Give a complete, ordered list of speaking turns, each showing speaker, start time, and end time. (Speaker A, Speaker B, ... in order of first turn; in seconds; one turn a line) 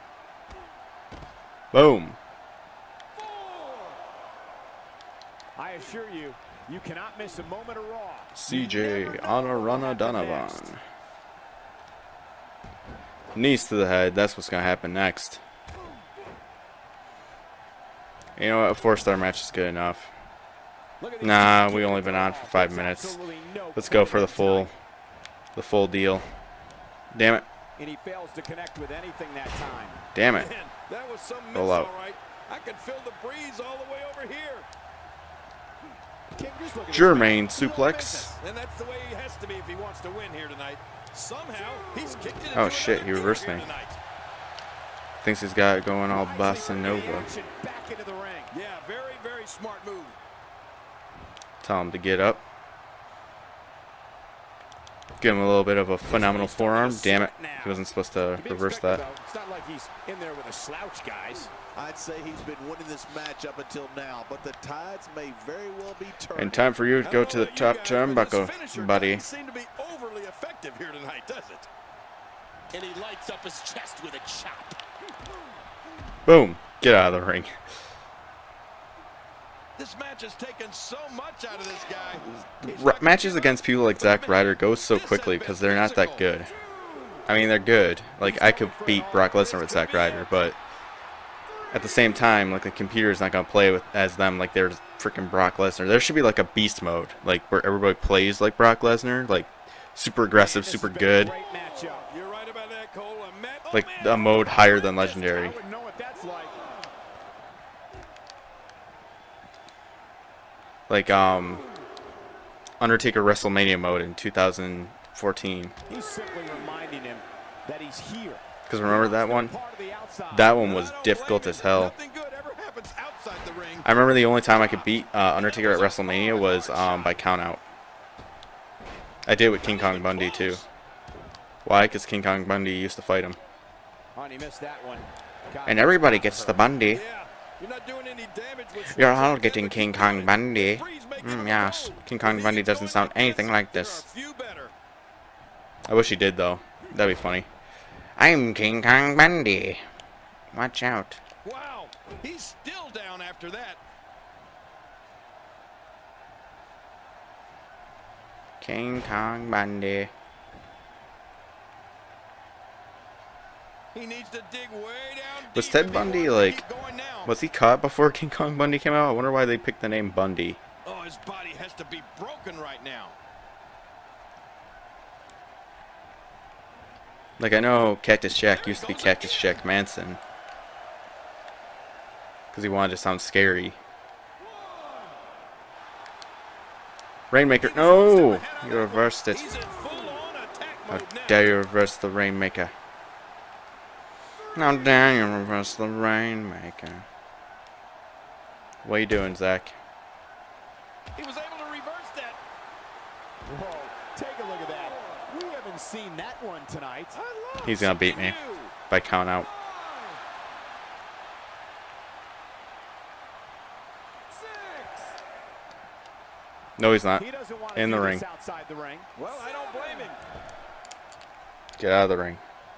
Speaker A: 1.7-2.2
Speaker B: 5.5-10.7
Speaker A: 8.3-10.8
Speaker A: 13.3-15.4
Speaker A: 18.4-20.1
Speaker B: 21.0-24.7
Speaker A: 21.2-23.2
Speaker A: 23.8-24.7
Speaker A: 25.5-26.2
Speaker A: 27.1-27.4
Speaker B: 27.8-30.0
Speaker A: 30.1-30.5
Speaker C: 30.3-34.7
Speaker A: 31.5-31.9
Speaker B: 36.4-38.4
Speaker A: 36.9-38.3
Speaker C: 38.4-44.0
Speaker A: 42.5-43.7
Speaker A: 45.2-47.3
Speaker B: 46.1-48.5
Speaker C: 48.5-50.2
Speaker A: 51.6-52.4
Speaker A: 55.2-59.0
Speaker B: 56.1-57.8
Speaker B: 58.4-61.5
Speaker D: 61.8-66.7
Speaker A: 66.3-69.2
Speaker C: 67.0-71.7
Speaker B: 72.7-74.8
Speaker A: 76.2-77.5
Speaker C: 79.8-86.3
Speaker A: 82.4-86.5
Speaker A: 87.2-90.6
Speaker B: 88.2-90.3
Speaker A: 91.7-101.3
Speaker B: 100.3-102.1
Speaker C: 102.1-104.4
Speaker A: 103.7-105.6
Speaker B: 104.4-106.6
Speaker A: 110.9-111.6
Speaker A: 112.8-115.7
Speaker B: 115.9-120.5
Speaker A: 118.7-119.5
Speaker A: 120.3-121.9
Speaker C: 120.6-123.9
Speaker A: 123.8-127.6
Speaker C: 125.3-127.2
Speaker A: 129.2-130.6
Speaker C: 129.6-130.7
Speaker A: 131.6-133.4
Speaker B: 134.1-136.6
Speaker A: 135.7-137.0
Speaker C: 136.9-144.7
Speaker A: 138.9-144.1
Speaker A: 145.9-147.5
Speaker A: 148.2-149.8
Speaker A: 150.5-151.2
Speaker C: 151.4-153.8
Speaker A: 158.6-160.1
Speaker C: 163.9-167.3
Speaker A: 165.5-166.7
Speaker A: 167.2-170.6
Speaker C: 170.8-173.2
Speaker A: 177.4-180.2
Speaker C: 178.5-179.6
Speaker A: 182.5-183.8
Speaker A: 187.3-189.5
Speaker C: 187.6-191.5
Speaker A: 190.9-192.7
Speaker A: 194.5-197.0
Speaker A: 198.8-199.8
Speaker C: 201.2-202.4
Speaker B: 203.4-207.2
Speaker C: 207.1-208.8
Speaker A: 207.6-208.4
Speaker A: 208.9-209.5
Speaker C: 214.3-214.9
Speaker A: 216.8-218.2
Speaker B: 217.1-219.1
Speaker C: 219.1-220.2
Speaker A: 221.8-222.4